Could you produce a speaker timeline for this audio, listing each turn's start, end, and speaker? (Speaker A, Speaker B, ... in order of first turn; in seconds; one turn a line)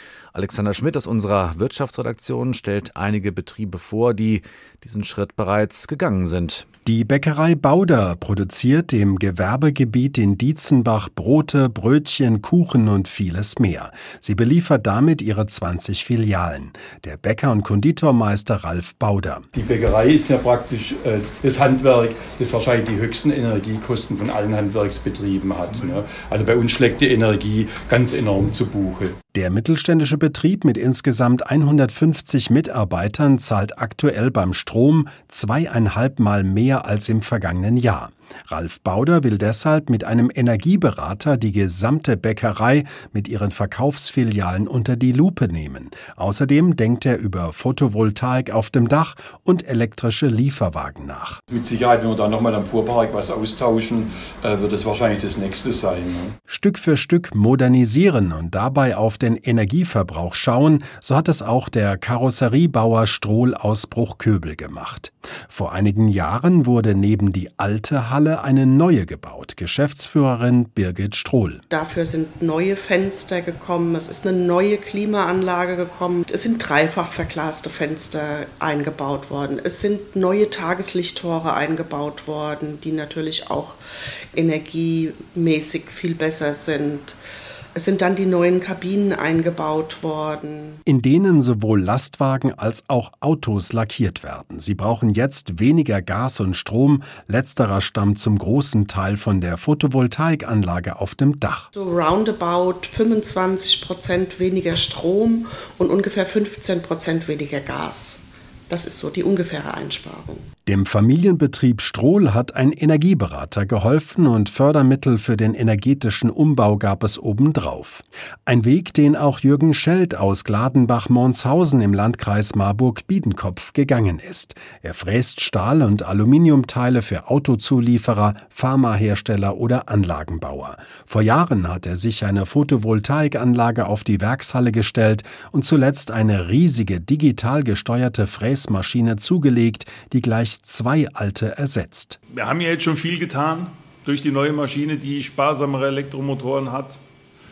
Speaker A: 0.3-6.6
Speaker B: 6.8-19.4
Speaker C: 19.5-29.1
Speaker B: 29.3-51.4
Speaker C: 51.5-56.3
Speaker B: 56.5-71.6
Speaker D: 71.7-83.8
Speaker D: 84.3-87.2
Speaker D: 87.7-90.8
Speaker B: 90.8-101.7
Speaker D: 101.7-110.5
Speaker B: 110.7-142.2
Speaker E: 142.3-147.0